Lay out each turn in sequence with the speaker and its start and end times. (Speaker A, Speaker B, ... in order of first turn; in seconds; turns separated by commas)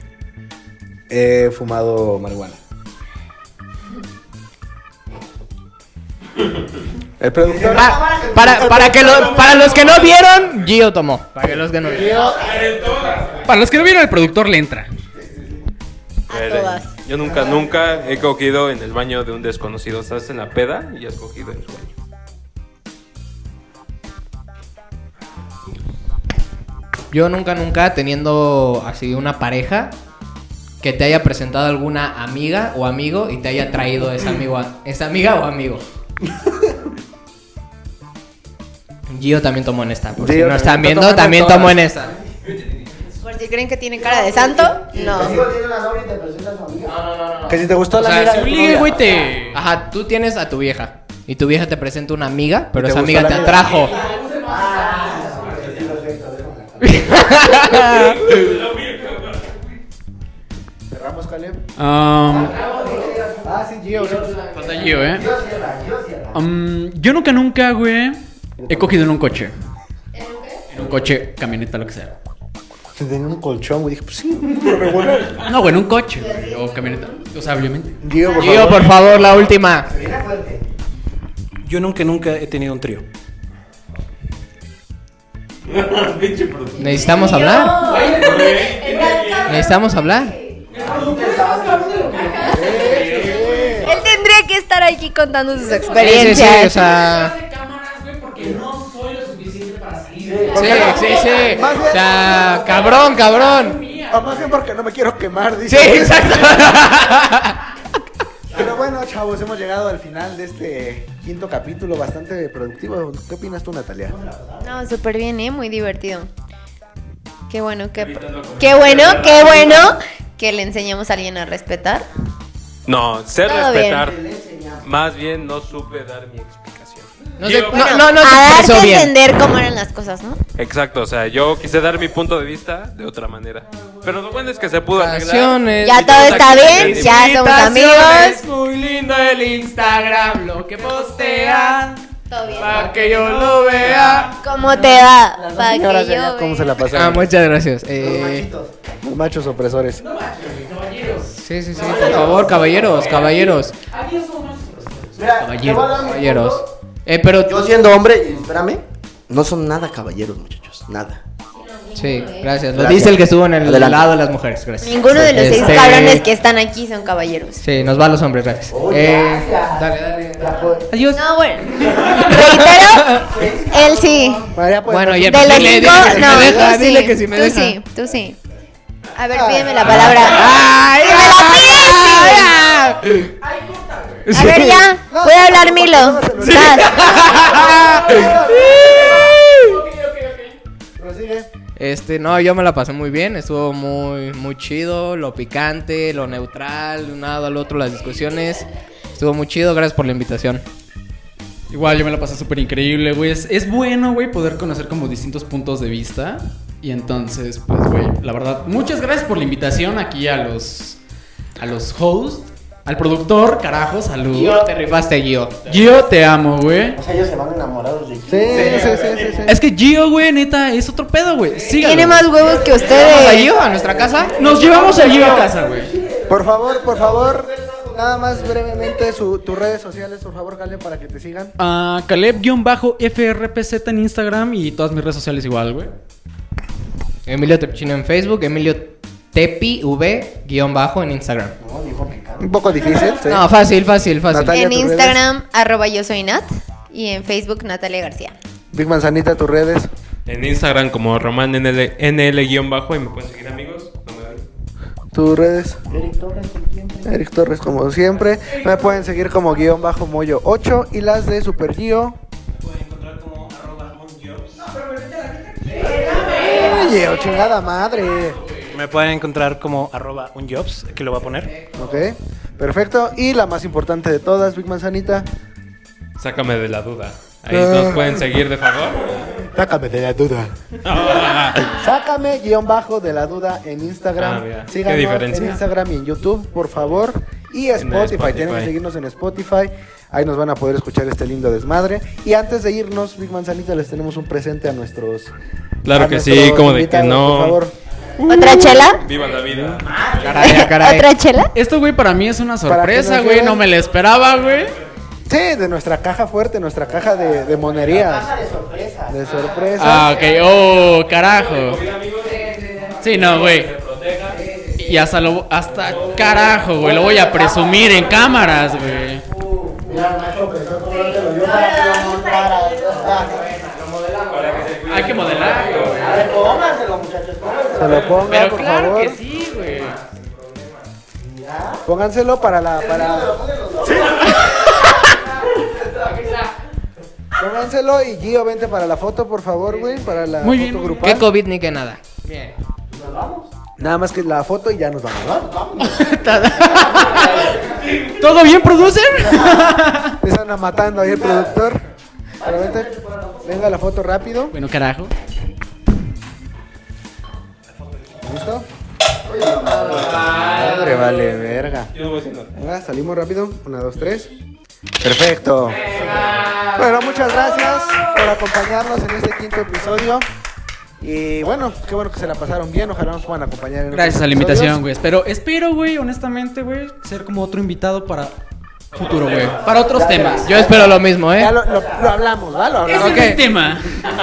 Speaker A: 1.1-2.6, Speaker A: 7.2-8.0, Speaker B: 7.4-9.5, Speaker C: 7.7-12.2, Speaker A: 8.5-9.7, Speaker D: 9.4-10.7, Speaker A: 11.4-13.1, Speaker B: 11.8-13.4, Speaker D: 12.4-13.4, Speaker E: 13.4-14.9, Speaker A: 15.1-15.6, Speaker F: 16.3-16.9, Speaker D: 16.3-21.9, Speaker A: 17.2-17.8, Speaker C: 27.1-29.9, Speaker C: 30.8-35.8, Speaker C: 39.1-42.1, Speaker A: 40.1-41.8, Speaker F: 43.2-45.4, Speaker B: 44.0-47.0, Speaker C: 46.9-47.6, Speaker A: 47.5-49.2, Speaker E: 48.0-49.6, Speaker C: 49.4-54.0, Speaker A: 52.7-53.8, Speaker B: 53.8-57.5, Speaker E: 53.9-55.3, Speaker C: 56.8-58.2, Speaker D: 58.1-59.5, Speaker A: 60.9-61.6, Speaker E: 61.8-62.6, Speaker B: 62.3-66.4, Speaker A: 63.4-64.4, Speaker C: 64.5-65.0, Speaker E: 64.5-65.3, Speaker E: 66.3-69.5, Speaker A: 68.6-69.0, Speaker F: 70.1-70.6, Speaker E: 70.7-72.1, Speaker A: 73.0-75.4, Speaker E: 75.4-78.0, Speaker F: 76.1-77.3, Speaker A: 78.0-79.0, Speaker F: 78.2-78.5, Speaker C: 78.3-79.9, Speaker B: 79.9-80.6, Speaker G: 81.6-83.0, Speaker D: 85.7-87.0, Speaker C: 86.8-88.0, Speaker F: 86.8-90.6, Speaker E: 87.7-89.6, Speaker D: 88.1-89.5, Speaker C: 89.4-90.3, Speaker E: 90.7-94.0, Speaker B: 90.7-92.1, Speaker F: 92.2-92.7, Speaker A: 92.4-93.9, Speaker F: 93.7-96.7, Speaker E: 95.5-104.5, Speaker C: 96.0-97.3, Speaker B: 100.2-101.8, Speaker A: 100.5-102.2, Speaker C: 100.5-103.8, Speaker A: 104.1-106.8, Speaker C: 105.7-107.5, Speaker A: 108.5-114.2, Speaker B: 114.0-114.8, Speaker F: 114.6-116.3, Speaker F: 117.5-122.1, Speaker D: 118.0-119.9, Speaker D: 122.9-124.2, Speaker F: 123.4-124.0, Speaker B: 124.0-124.9, Speaker D: 124.8-128.1, Speaker C: 127.4-129.1, Speaker F: 127.7-130.4, Speaker D: 130.6-137.1, Speaker C: 134.9-138.4, Speaker F: 135.8-138.4, Speaker E: 137.8-142.0, Speaker C: 140.2-141.9, Speaker F: 142.3-143.0, Speaker B: 142.4-142.7, Speaker C: 142.6-144.4, Speaker E: 142.6-144.4, Speaker F: 144.4-146.8, Speaker B: 144.8-145.8, Speaker A: 145.6-147.3, Speaker C: 146.9-148.5, Speaker B: 147.9-148.7, Speaker A: 149.0-150.0, Speaker E: 150.0-156.0, Speaker C: 151.3-153.8, Speaker B: 151.7-153.6, Speaker B: 155.2-156.6, Speaker C: 156.0-157.7, Speaker B: 157.4-161.2, Speaker F: 161.5-162.5, Speaker C: 161.9-166.2, Speaker A: 162.8-163.1, Speaker B: 162.8-164.1, Speaker F: 164.8-167.6, Speaker C: 167.6-171.1, Speaker B: 168.7-170.9, Speaker E: 170.9-171.2, Speaker F: 171.1-174.5, Speaker B: 171.9-172.3, Speaker C: 172.2-173.3, Speaker B: 173.1-174.4, Speaker A: 174.5-176.7, Speaker C: 174.9-177.8, Speaker F: 175.2-178.4, Speaker F: 179.1-183.0, Speaker A: 179.3-180.1, Speaker C: 179.9-183.2, Speaker E: 183.4-184.4, Speaker F: 184.3-187.0, Speaker C: 184.3-184.8, Speaker A: 185.0-189.3, Speaker E: 186.9-190.6, Speaker C: 186.9-189.8, Speaker A: 191.0-191.5, Speaker C: 191.8-200.6, Speaker E: 201.7-211.0, Speaker E: 211.6-214.6, Speaker C: 214.3-215.7, Speaker E: 215.7-217.0, Speaker B: 216.9-219.5, Speaker A: 218.3-219.6, Speaker E: 219.5-222.3, Speaker F: 221.7-223.5, Speaker B: 222.3-229.0, Speaker C: 222.7-224.4, Speaker E: 224.3-225.9, Speaker A: 226.3-231.5, Speaker E: 231.6-235.9, Speaker C: 237.3-241.5, Speaker B: 241.6-243.2, Speaker A: 242.4-243.5, Speaker C: 243.3-244.6, Speaker A: 244.3-245.2, Speaker F: 244.5-248.3, Speaker A: 248.7-249.9, Speaker D: 250.2-254.4, Speaker A: 255.1-255.8, Speaker B: 255.9-257.1, Speaker A: 257.0-262.2, Speaker G: 262.5-264.6, Speaker C: 264.8-267.1, Speaker E: 264.8-266.7, Speaker A: 266.3-268.4, Speaker G: 268.7-271.6, Speaker C: 271.6-271.9, Speaker A: 271.7-275.2, Speaker D: 276.2-279.2, Speaker A: 277.5-278.2, Speaker A: 279.5-280.5, Speaker D: 280.8-281.8, Speaker A: 281.7-295.3, Speaker D: 284.2-285.6, Speaker D: 287.8-288.7, Speaker D: 295.8-297.6, Speaker A: 295.9-297.7, Speaker F: 298.2-299.0, Speaker D: 298.2-300.1, Speaker A: 298.3-298.8, Speaker B: 298.4-298.7, Speaker A: 299.5-299.8, Speaker B: 299.8-300.6, Speaker C: 300.2-301.1, Speaker F: 300.4-301.5, Speaker E: 301.5-304.7, Speaker A: 302.7-303.6, Speaker A: 305.3-308.3, Speaker B: 306.9-310.2, Speaker A: 309.1-310.2, Speaker E: 309.8-311.8, Speaker D: 311.0-312.5, Speaker C: 312.3-313.0, Speaker E: 313.0-313.7, Speaker D: 313.0-314.4, Speaker E: 314.8-319.2, Speaker D: 315.7-316.7, Speaker B: 316.8-318.2, Speaker B: 319.8-323.6, Speaker F: 320.9-323.2, Speaker C: 323.3-324.8, Speaker D: 324.3-326.2, Speaker E: 324.9-326.2, Speaker B: 325.9-328.4, Speaker A: 327.8-329.2, Speaker E: 328.3-330.0, Speaker C: 329.3-330.8, Speaker B: 331.2-331.9, Speaker A: 331.8-333.3, Speaker B: 332.7-336.2, Speaker A: 333.9-334.2, Speaker C: 336.1-336.5, Speaker A: 337.4-341.3, Speaker E: 340.4-341.2, Speaker C: 341.0-342.5, Speaker B: 342.9-343.5, Speaker A: 343.8-345.5, Speaker B: 345.4-348.1, Speaker E: 346.0-347.5, Speaker C: 346.0-347.1, Speaker E: 348.1-350.2, Speaker B: 349.1-349.8, Speaker A: 350.2-351.8, Speaker B: 351.0-351.5, Speaker B: 352.4-353.7, Speaker A: 352.4-352.9, Speaker A: 353.4-354.5, Speaker E: 354.5-355.1, Speaker A: 358.2-358.7, Speaker B: 359.2-360.5, Speaker C: 359.6-361.4, Speaker A: 360.4-361.9, Speaker D: 361.9-362.5, Speaker A: 362.5-364.3, Speaker A: 365.0-365.9, Speaker C: 365.7-368.2, Speaker B: 365.9-366.4, Speaker A: 366.7-370.2, Speaker A: 371.0-374.8, Speaker E: 373.9-378.4, Speaker D: 378.9-379.8, Speaker E: 378.9-380.7, Speaker B: 379.6-381.0, Speaker C: 380.4-381.6, Speaker A: 381.4-383.4, Speaker B: 381.6-383.0, Speaker E: 382.8-383.9, Speaker C: 383.0-383.4